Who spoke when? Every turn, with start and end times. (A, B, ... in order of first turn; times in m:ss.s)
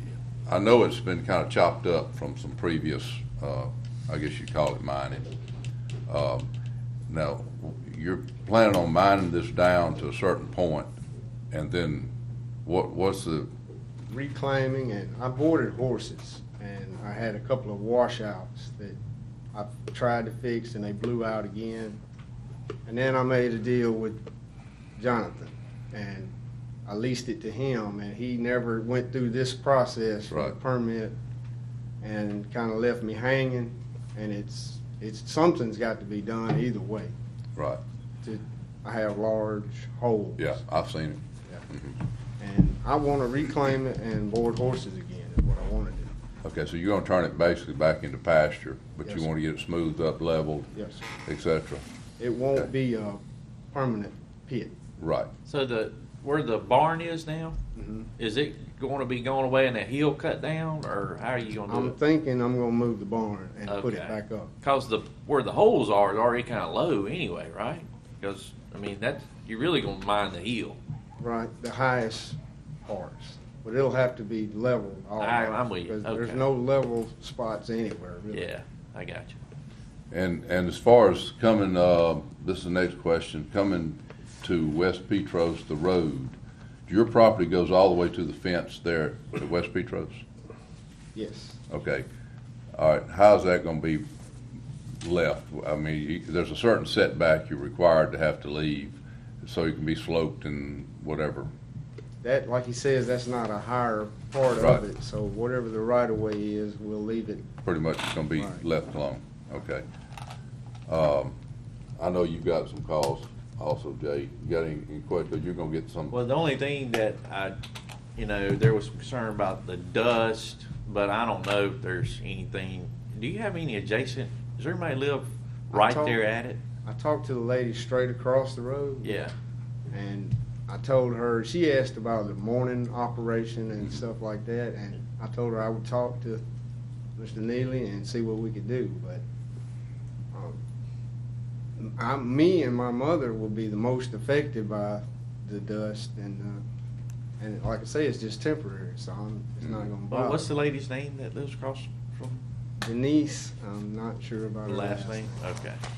0:00.5-0:05.3 A
0:06.1-0:06.5 A
0:07.1-0:10.9 A
0:11.5-0:12.1 A
0:12.6-0:13.5 A
0:14.1-0:19.0 B
0:19.5-0:22.0 B
0:22.9-0:24.2 B
0:25.0-0:26.3 B
0:26.9-0:31.2 B
0:32.0-0:37.1 B
0:38.2-0:40.5 B
0:40.4-0:42.0 A
0:42.4-0:46.1 B
0:46.4-0:50.7 A
0:50.8-0:51.0 B
0:51.2-0:51.8 A
0:52.2-0:53.2 B
0:53.7-0:54.7 B
0:55.0-0:55.3 A
0:55.5-0:57.6 C
0:57.8-0:58.1 B
0:58.2-1:02.0 C
1:01.7-1:04.5 B
1:03.7-1:10.8 C
1:11.2-1:18.5 B
1:15.2-1:16.5 C
1:18.3-1:19.4 C
1:20.1-1:30.2 A
1:31.2-1:31.6 B
1:31.7-1:32.0 A
1:32.8-1:34.0 A
1:35.0-1:41.5 A
1:42.2-1:47.5 B
1:47.6-1:49.8 A
1:50.9-1:51.4 A
1:52.0-1:56.2 A
1:56.1-1:57.6 C
1:58.2-2:06.6 C
2:05.7-2:06.2 B
2:06.8-2:09.2 B
2:09.0-2:09.3 C
2:09.9-2:16.4 B
2:17.2-2:19.2 B
2:21.8-2:26.6 B
2:27.4-2:30.5 B
2:30.1-2:32.4 C
2:32.8-2:35.3 B
2:34.6-2:35.8 C